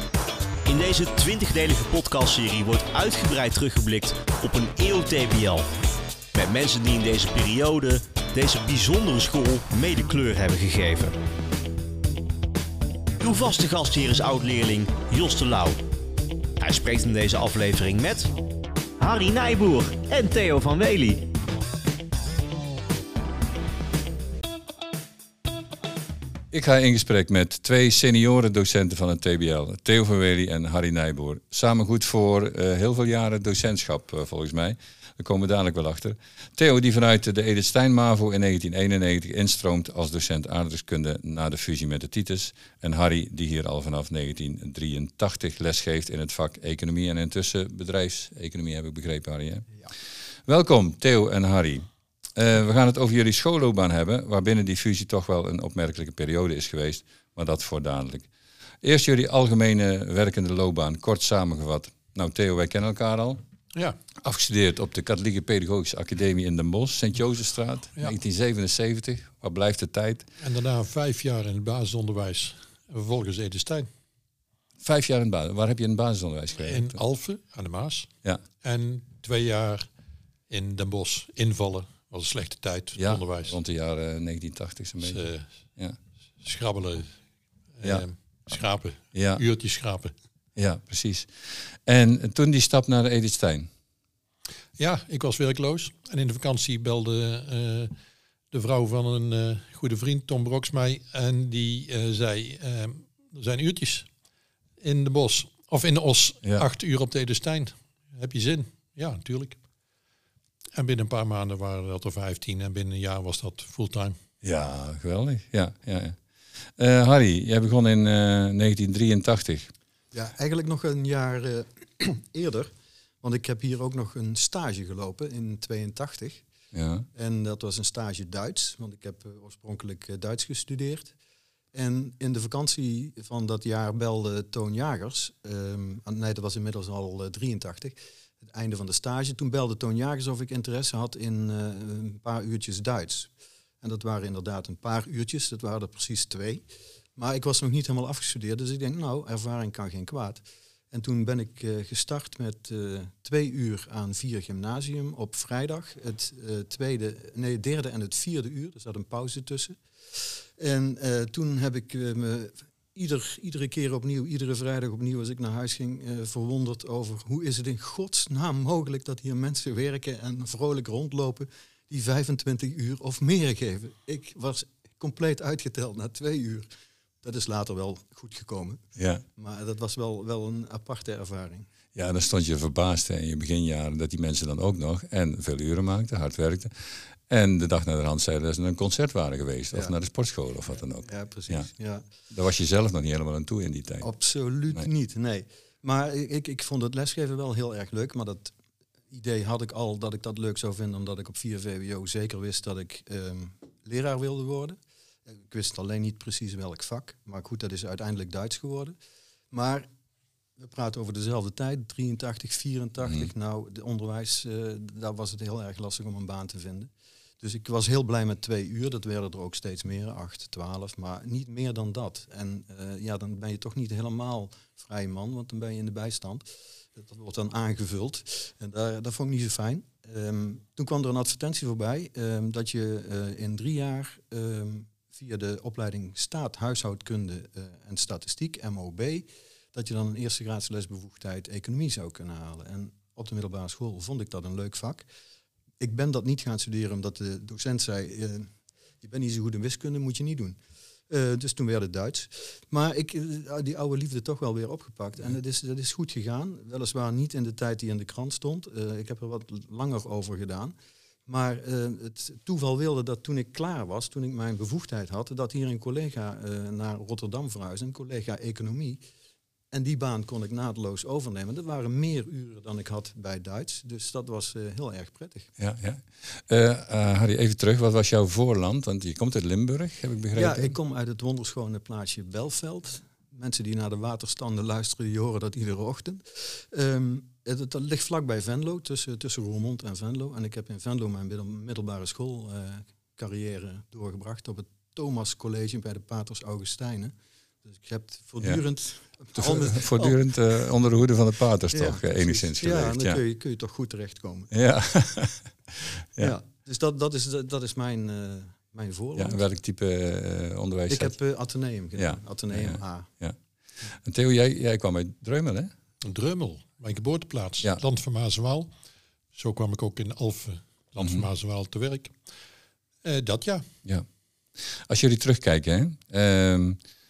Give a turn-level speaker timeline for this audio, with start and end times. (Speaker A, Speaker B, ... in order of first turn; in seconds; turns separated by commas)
Speaker A: 0.7-5.7, Speaker A: 6.3-11.2, Speaker A: 13.2-15.8, Speaker A: 16.6-18.3, Speaker A: 19.0-21.3, Speaker B: 26.5-49.8, Speaker B: 50.5-58.3, Speaker B: 58.8-63.4, Speaker B: 64.2-70.3, Speaker C: 70.4-73.9, Speaker B: 74.8-77.0, Speaker C: 76.6-78.1, Speaker C: 78.6-79.9, Speaker C: 80.5-83.5, Speaker B: 83.0-85.2, Speaker C: 85.0-85.5, Speaker C: 86.4-87.2, Speaker C: 87.8-90.1, Speaker B: 89.1-89.4, Speaker B: 90.5-93.7, Speaker C: 94.8-97.9, Speaker C: 98.5-104.1, Speaker C: 104.8-109.6, Speaker C: 110.7-114.2, Speaker B: 114.4-119.7, Speaker D: 120.1-126.4, Speaker B: 126.7-127.1, Speaker D: 127.1-131.1, Speaker D: 131.7-146.6, Speaker D: 147.2-176.7, Speaker D: 177.2-178.8, Speaker B: 178.9-179.2, Speaker D: 179.3-181.7, Speaker B: 181.9-191.7, Speaker D: 191.0-192.1, Speaker B: 192.3-194.1, Speaker D: 194.0-198.5, Speaker D: 199.1-208.9, Speaker D: 209.5-209.9, Speaker D: 210.6-245.0, Speaker D: 245.8-250.6, Speaker D: 251.1-260.7, Speaker D: 261.2-269.0, Speaker D: 269.7-275.5, Speaker B: 275.6-280.8, Speaker D: 280.3-300.2, Speaker B: 299.3-303.2, Speaker D: 301.7-304.5, Speaker B: 304.5-306.3, Speaker D: 306.2-309.4, Speaker B: 309.1-311.1, Speaker D: 310.9-313.1, Speaker B: 312.0-315.7, Speaker C: 316.0-318.7, Speaker C: 319.3-322.1, Speaker B: 321.0-321.2, Speaker C: 323.0-323.7, Speaker B: 324.6-326.8